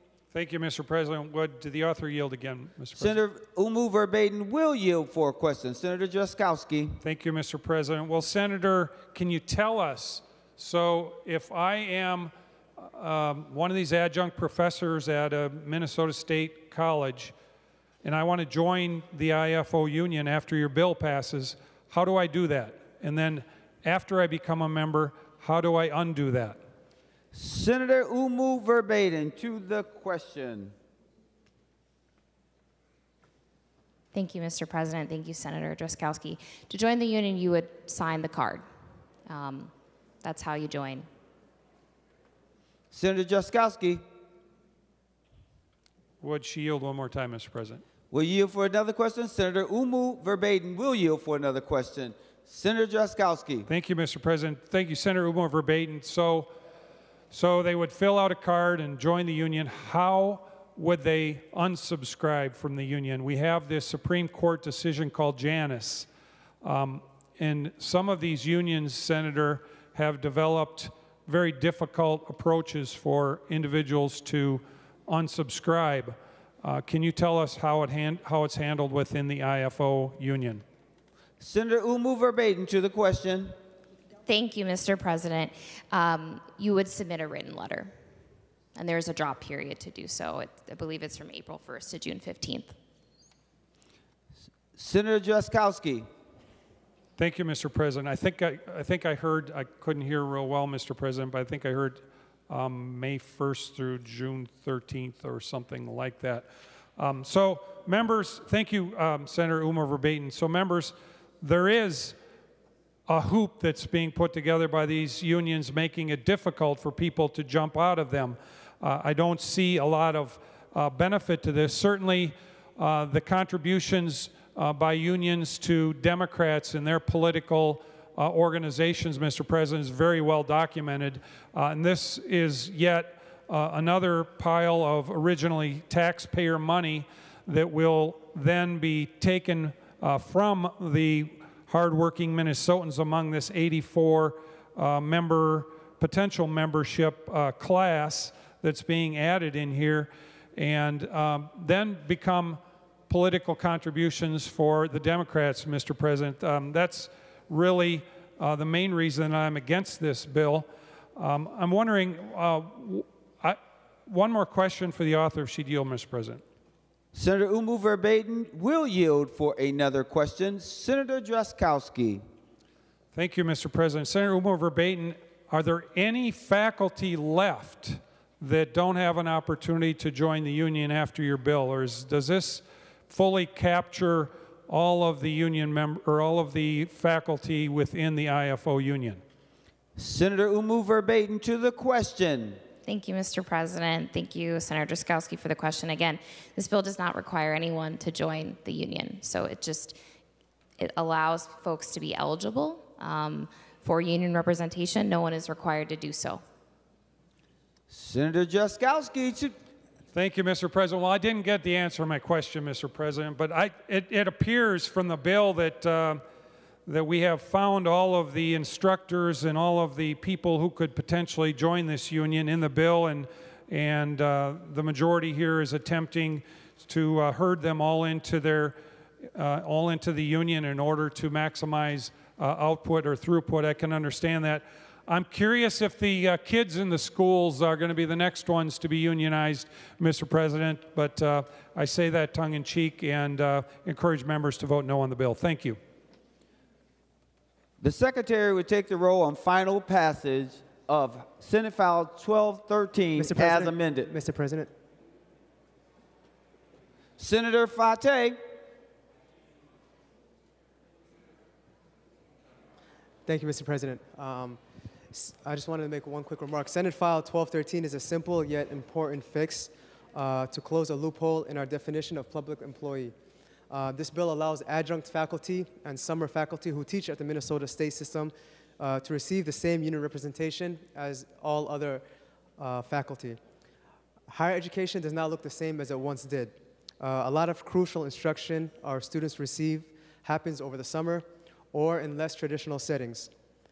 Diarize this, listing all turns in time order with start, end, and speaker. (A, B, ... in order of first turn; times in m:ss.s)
0:00.3-0:03.2 A
0:03.0-0:07.0 B
0:07.0-0:17.3 A
0:18.0-0:26.6 A
0:27.3-0:30.7 B
0:34.1-0:38.6 C
0:39.3-0:39.7 C
0:40.2-0:41.1 C
0:42.9-0:44.0 B
0:46.2-0:47.8 A
0:48.1-0:53.7 B
0:53.7-0:56.5 A
0:57.3-1:06.1 A
1:06.6-1:20.6 A
1:21.4-1:23.6 B
1:24.3-1:27.9 C
1:28.8-1:32.8 C
1:34.8-1:36.1 B
1:37.2-1:52.2 A
1:53.1-2:46.4 A
2:47.1-2:52.2 B
2:53.1-3:09.2 A
3:10.0-3:12.6 B
3:12.8-3:20.0 C
3:20.8-3:26.4 C
3:27.9-3:29.6 B
3:30.1-3:36.2 A
3:36.9-3:48.8 A
3:49.4-4:05.8 A
4:07.8-4:14.1 B
4:13.2-4:14.7 D
4:17.2-4:18.4 B
4:23.3-4:24.6 D
4:25.1-4:33.2 D
4:33.7-4:42.0 D
4:42.6-4:43.4 D
4:44.3-4:53.3 D